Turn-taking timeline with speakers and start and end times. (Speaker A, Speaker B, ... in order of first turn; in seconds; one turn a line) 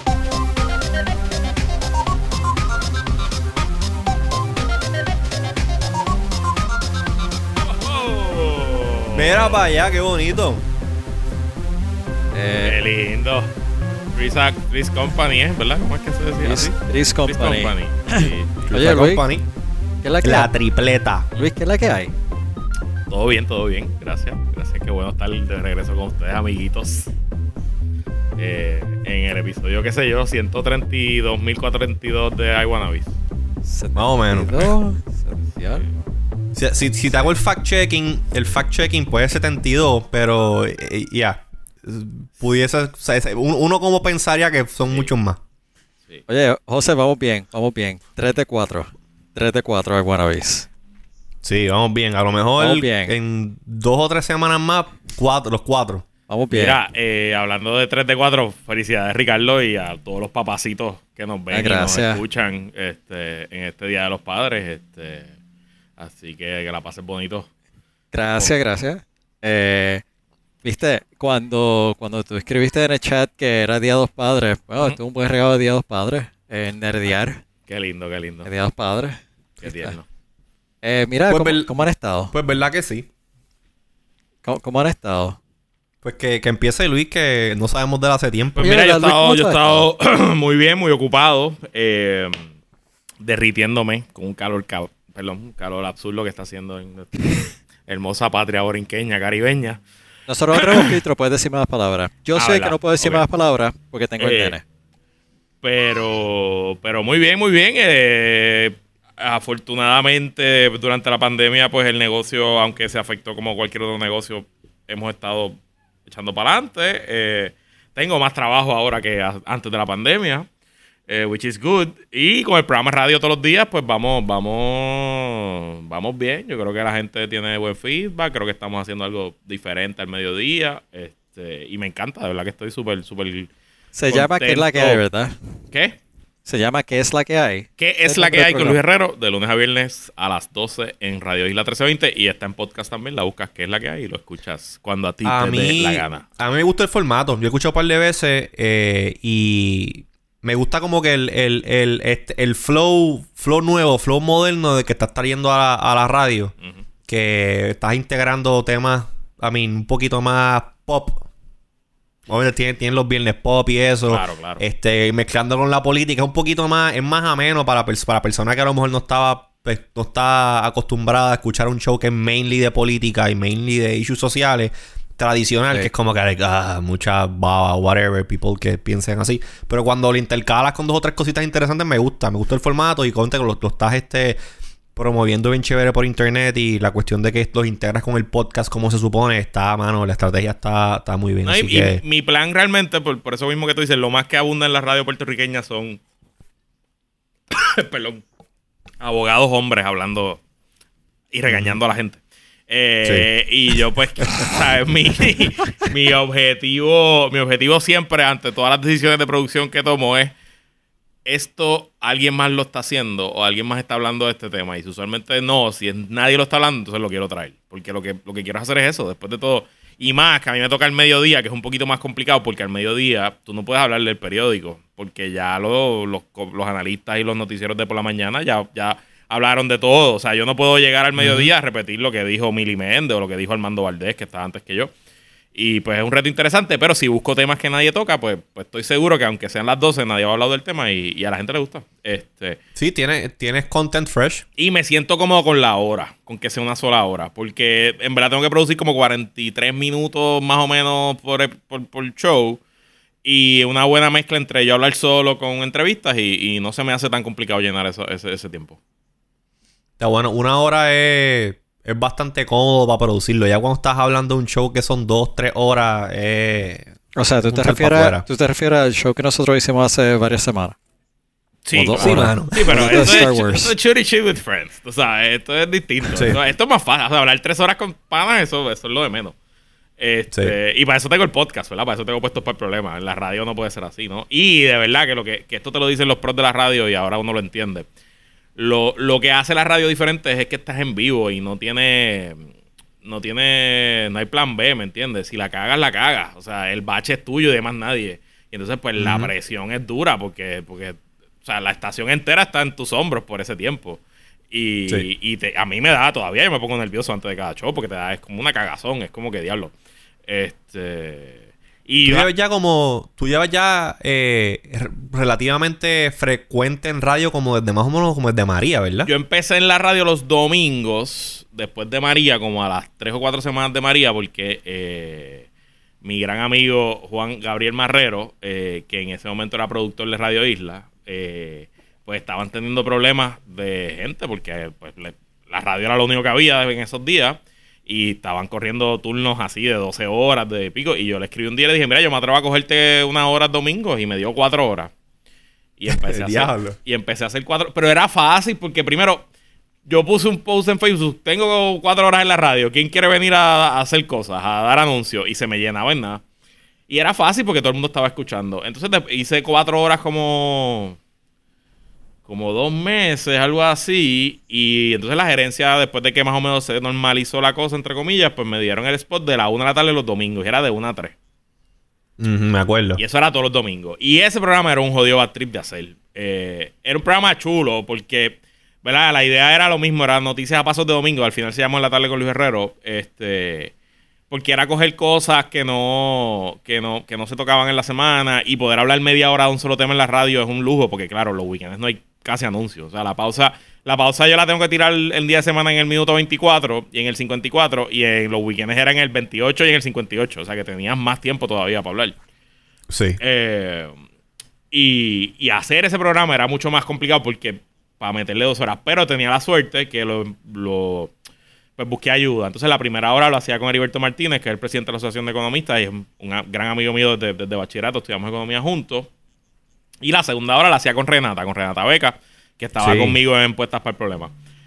Speaker A: 7.6-9.7
Speaker B: 9.2-10.6
Speaker C: 12.3-12.8
Speaker A: 12.6-13.5
Speaker A: 14.1-16.7
Speaker C: 16.4-19.2
Speaker A: 17.3-18.7
Speaker B: 18.7-19.4
Speaker C: 20.0-20.5
Speaker B: 20.2-21.3
Speaker C: 21.4-22.1
Speaker A: 23.1-27.1
Speaker A: 28.4-33.1
Speaker C: 33.6-35.9
Speaker B: 34.0-34.7
Speaker B: 36.5-45.4
Speaker C: 46.3-50.7
Speaker B: 51.4-56.0
Speaker C: 52.6-53.1
Speaker C: 56.3-56.8
Speaker A: 56.5-65.3
Speaker C: 61.5-62.2
Speaker A: 66.0-67.5
Speaker C: 68.1-70.0
Speaker C: 70.6-77.4
Speaker A: 77.7-78.5
Speaker C: 78.4-80.0
Speaker A: 79.6-80.0
Speaker C: 80.8-82.3
Speaker B: 81.3-81.7
Speaker B: 82.3-83.1
Speaker C: 84.4-85.4
Speaker B: 86.0-88.7
Speaker A: 88.6-92.5
Speaker C: 88.6-89.8
Speaker A: 93.2-99.8
Speaker C: 100.3-104.6
Speaker A: 100.5-101.0
Speaker A: 102.3-103.2
Speaker A: 104.2-104.6
Speaker A: 105.6-120.5
Speaker A: 121.1-133.5
Speaker C: 133.9-135.5
Speaker A: 134.1-135.0
Speaker A: 135.7-136.0
Speaker C: 136.5-138.8
Speaker A: 137.8-146.2
Speaker B: 145.2-156.5
Speaker B: 157.1-161.2
Speaker B: 162.3-184.4
Speaker A: 164.1-164.6
Speaker B: 184.9-192.0
Speaker A: 191.4-196.0
Speaker A: 197.5-198.2
Speaker A: 199.0-200.4
Speaker A: 201.3-210.3
Speaker B: 201.5-201.8
Speaker A: 211.2-234.9
Speaker B: 231.2-231.5
Speaker A: 235.6-242.6
Speaker B: 242.8-244.4
Speaker A: 244.6-252.6
Speaker A: 253.2-258.8
Speaker B: 260.0-266.9
Speaker C: 267.2-270.8
Speaker B: 267.4-268.2
Speaker A: 271.6-279.4
Speaker C: 271.7-273.7
Speaker B: 272.0-273.3
Speaker B: 276.1-276.4
Speaker A: 280.0-287.9
Speaker A: 288.6-292.5
Speaker A: 293.0-309.7
Speaker B: 299.0-299.3
Speaker A: 310.3-312.3
Speaker B: 312.0-319.1
Speaker A: 319.1-325.5
Speaker A: 326.0-344.9
Speaker A: 345.8-349.2
Speaker B: 345.9-346.8
Speaker A: 349.9-356.2
Speaker A: 356.9-361.0
Speaker A: 362.3-371.1
Speaker B: 372.2-373.0
Speaker A: 373.0-383.7
Speaker A: 384.3-402.2
Speaker B: 402.9-403.2
Speaker A: 403.2-404.0
Speaker A: 404.7-411.1
Speaker A: 411.8-419.1
Speaker A: 420.0-424.3
Speaker B: 422.8-423.2